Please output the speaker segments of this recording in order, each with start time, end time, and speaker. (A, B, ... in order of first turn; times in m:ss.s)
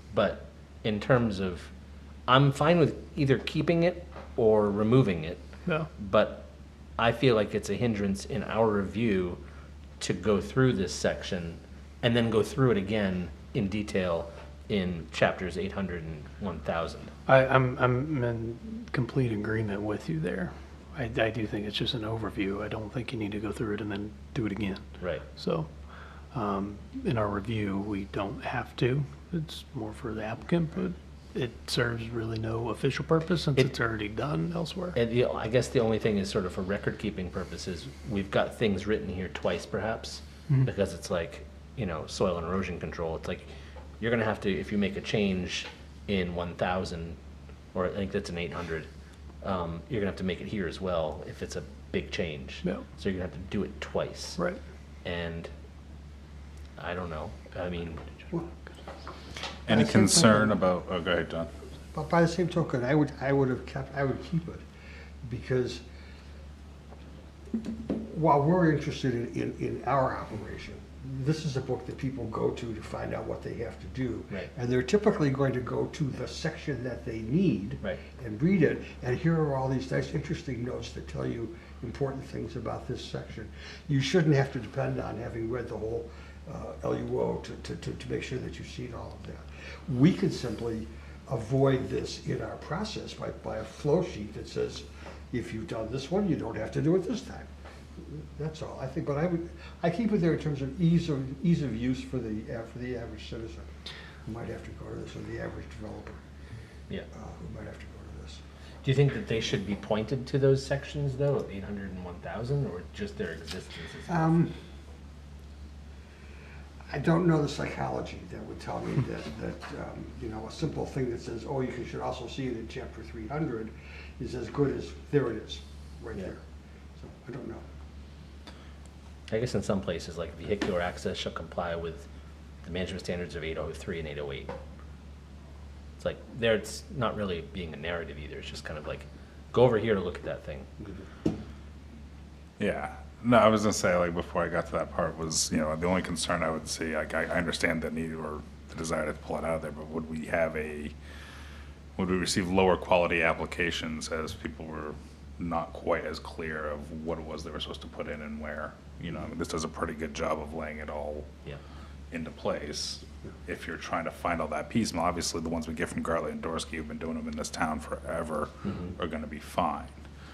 0:00.1-0:01.7 A
0:02.3-0:05.4 A
0:06.0-0:06.5 A
0:07.0-0:09.4 A
0:10.0-0:17.1 A
0:17.3-0:25.7 B
0:25.0-0:25.2 A
0:26.3-0:35.0 B
0:35.0-0:43.5 A
0:44.0-0:47.2 A
0:47.7-0:48.9 A
0:49.4-0:54.4 A
0:55.0-0:55.5 A
0:56.8-0:58.0 A
0:59.6-1:01.5 C
0:59.7-1:00.6 D
1:01.9-1:04.6 D
1:05.2-1:05.8 D
1:07.9-1:43.7 D
1:44.2-1:46.2 D
1:47.1-1:48.4 D
1:48.8-1:54.4 A
1:54.1-1:54.5 D
1:56.9-2:06.4 D
2:07.0-2:07.6 D
2:09.3-2:12.1 A
2:12.6-2:14.5 A
2:16.0-2:20.7 A
2:22.6-2:30.9 C
2:32.0-2:41.3 C
2:42.1-2:50.0 C
2:48.6-2:48.9 A